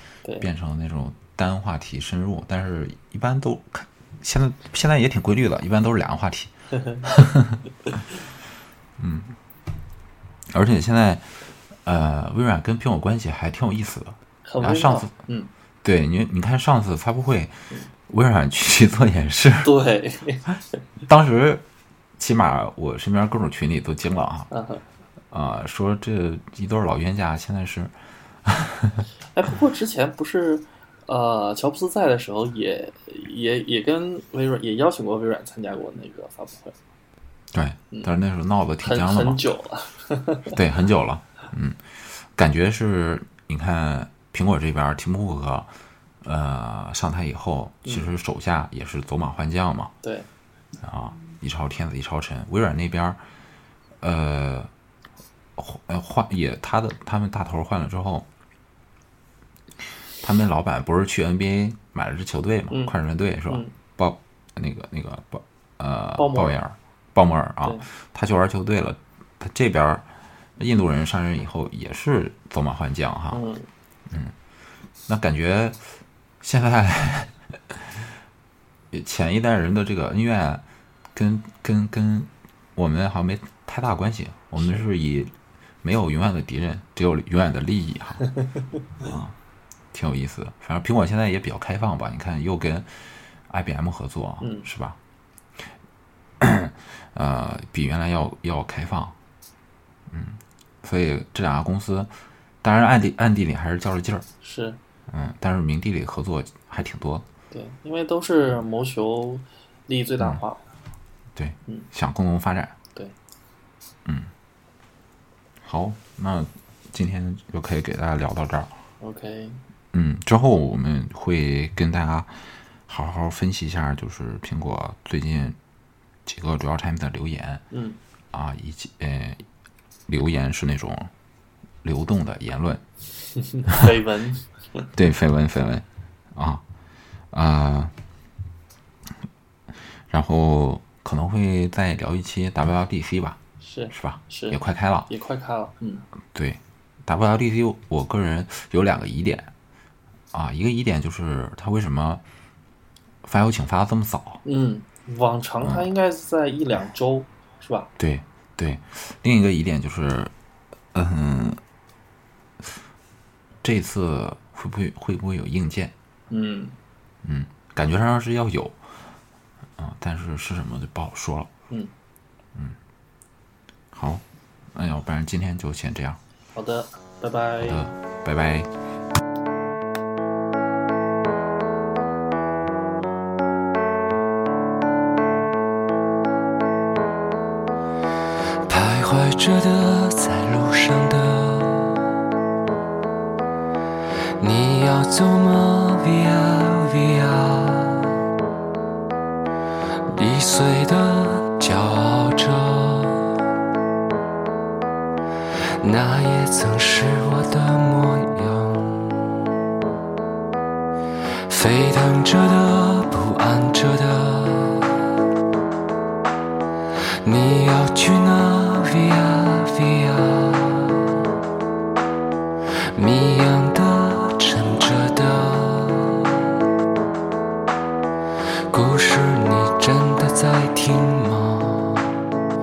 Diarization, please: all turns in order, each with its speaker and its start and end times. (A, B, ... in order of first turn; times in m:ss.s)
0:00.4-0:07.6 A
0:06.7-0:07.1 B
0:09.0-0:09.4 A
0:10.5-0:11.3 A
0:11.8-0:15.1 A
0:14.4-0:15.5 B
0:15.8-0:19.7 A
0:19.6-0:20.5 B
0:21.1-0:21.6 A
0:22.2-0:24.5 A
0:24.5-0:24.8 B
0:25.3-0:27.9 A
0:28.4-0:29.0 A
0:29.3-0:36.8 B
0:37.5-0:39.4 A
0:38.8-0:40.6 B
0:40.5-0:41.8 A
0:42.3-0:45.7 A
0:46.2-0:49.9 A
0:50.8-0:53.2 A
0:54.0-0:54.7 A
0:55.6-0:58.3 A
1:00.2-1:10.0 A
1:02.7-1:03.7 B
1:06.2-1:06.5 B
1:10.6-1:13.4 A
1:13.3-1:13.7 B
1:14.1-1:14.3 A
1:15.1-1:15.8 A
1:16.4-1:18.1 A
1:18.9-1:28.3 A
1:29.0-1:29.4 A
1:29.9-1:32.9 A
1:33.5-1:35.0 A
1:34.4-1:34.7 B
1:36.4-1:39.2 A
1:40.1-1:42.1 A
1:42.6-1:44.2 A
1:44.4-1:44.8 B
1:45.1-1:47.2 A
1:47.5-1:50.6 B
1:51.3-1:52.8 A
1:54.0-1:54.3 A
1:55.6-1:58.7 A
1:59.0-1:59.6 B
1:59.9-2:02.3 A
2:02.9-2:05.6 A
2:06.2-2:07.6 A
2:07.7-2:08.0 B
2:08.3-2:09.4 A
2:10.1-2:11.1 A
2:11.8-2:12.8 A
2:13.3-2:14.9 B
2:14.9-2:16.6 A
2:17.3-2:17.9 A
2:20.1-2:23.4 A
2:23.6-2:26.0 B
2:23.9-2:25.1 A
2:26.3-2:29.5 A
2:30.3-2:32.2 A
2:33.2-2:34.4 A
2:34.4-2:37.9 B
2:35.6-2:35.9 A
2:38.0-2:40.3 A
2:40.9-2:41.6 A
2:43.6-2:45.9 A
2:46.3-2:46.8 B
2:47.2-2:48.8 A
2:49.8-2:51.5 A
2:53.9-2:56.2 A
2:56.5-2:57.8 B
2:57.6-2:58.7 A
3:08.6-3:12.1 C
3:14.4-3:18.2 C
3:20.0-3:23.4 C
3:25.8-3:29.4 C
3:31.5-3:35.0 C
3:37.2-3:41.2 C
3:42.9-3:46.4 C
3:48.7-3:52.2 C